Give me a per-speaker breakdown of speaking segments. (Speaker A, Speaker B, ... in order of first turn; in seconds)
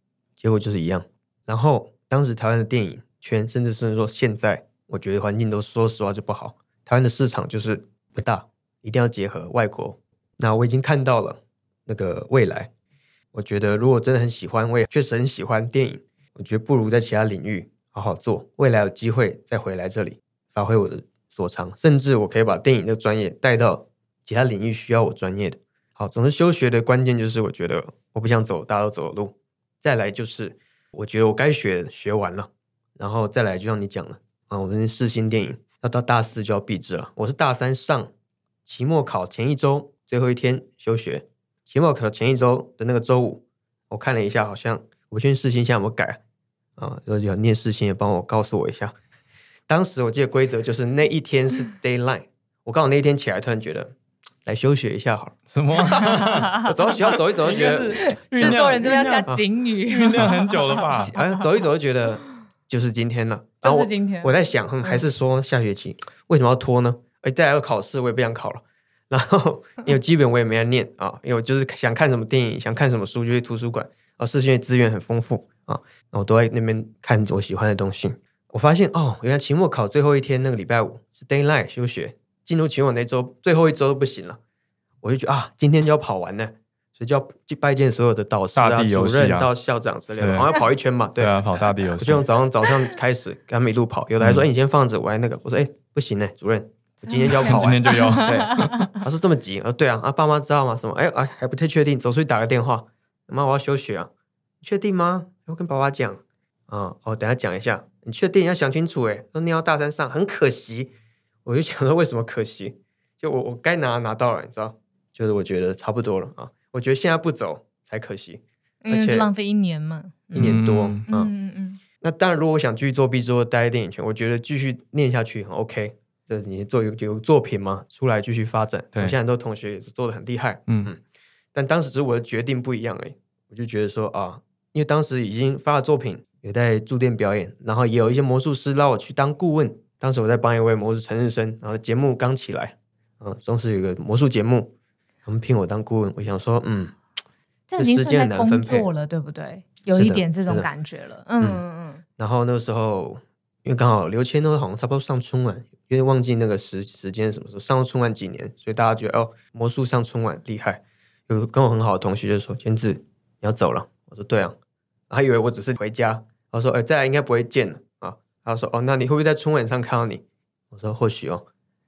Speaker A: 0.4-12.7, 13.3-38.1, 38.7-46.2, 46.8-48.9, 49.7-53.9, 54.5-59.4, 61.0-84.4, 85.0-91.4, 92.0-104.1, 104.6-110.9, 111.5-119.3, 120.3-121.3, 122.0-131.0, 131.5-144.7, 145.3-147.0, 147.8-148.9, 149.9-150.7, 152.2-164.6, 165.1-171.5
Speaker B: 55.5-56.7, 57.4-61.1, 88.5-89.5, 90.2-90.5, 91.2-92.3, 94.2-94.5, 97.2-98.8, 120.4-121.0
Speaker C: 55.9-56.7, 57.6-61.4, 63.6-65.0, 97.0-98.9, 118.8-121.8, 147.7-152.0